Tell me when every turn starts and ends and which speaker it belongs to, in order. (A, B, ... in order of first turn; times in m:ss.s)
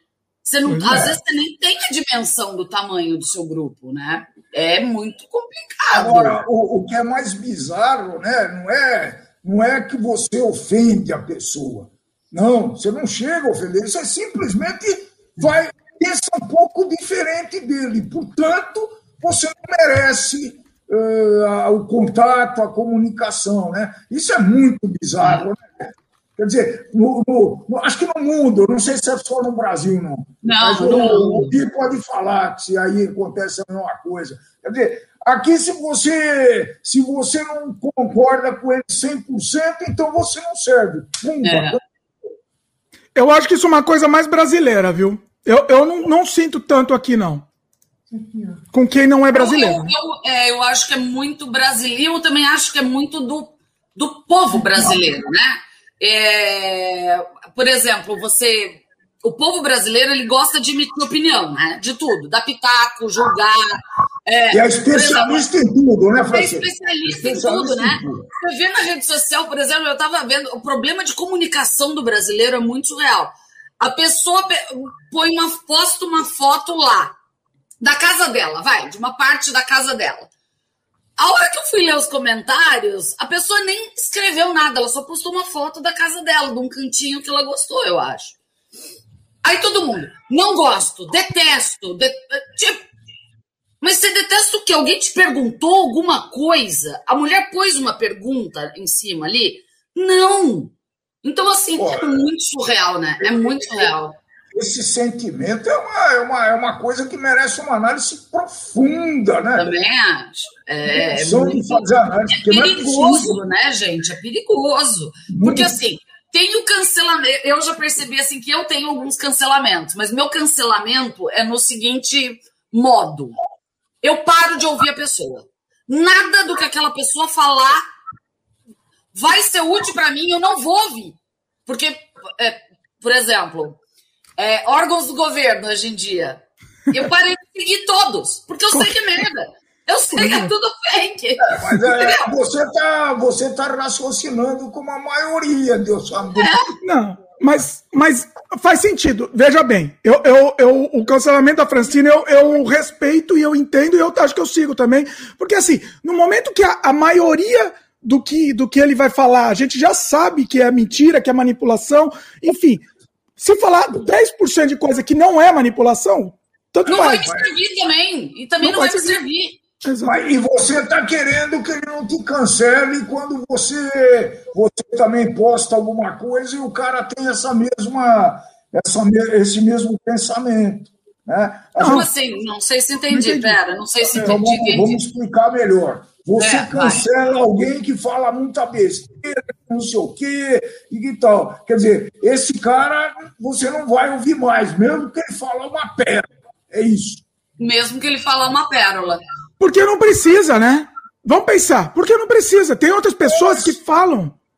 0:00.4-0:06.4 A
0:00.7-0:01.0 B
0:00.9-0:01.1 C
0:05.9-0:41.8 C
0:30.4-0:31.6 A
0:41.4-0:41.8 A
0:43.1-0:47.4 B
0:48.7-0:49.9 B
0:49.3-1:05.4 A
1:04.5-1:08.3 C
1:06.3-1:17.1 A
1:17.8-1:20.3 A
1:21.2-1:28.4 A
1:29.4-1:32.8 A
1:33.8-1:40.7 A
1:41.2-1:44.2 A
1:41.8-1:42.3 C
1:43.2-1:43.9 C
1:44.5-1:49.7 C
1:49.6-2:03.4 A
1:50.9-1:53.4 C
1:55.3-1:55.8 C
2:04.0-2:07.8 A
2:09.1-2:13.8 A
2:14.4-2:22.3 A
2:20.1-2:20.5 B
2:21.4-2:26.6 C
2:26.4-2:26.7 A
2:26.8-2:42.9 B
2:43.4-2:47.3 B
2:46.9-2:49.6 A
2:48.6-2:49.2 B
2:49.8-2:50.1 B
2:50.0-3:02.1 C
3:01.8-3:02.1 B
3:01.8-3:05.0 A
3:03.1-3:03.6 B
3:04.0-3:17.2 C
3:06.4-3:07.0 A
3:17.6-3:19.2 A
3:19.6-3:24.3 B
3:23.2-3:23.7 C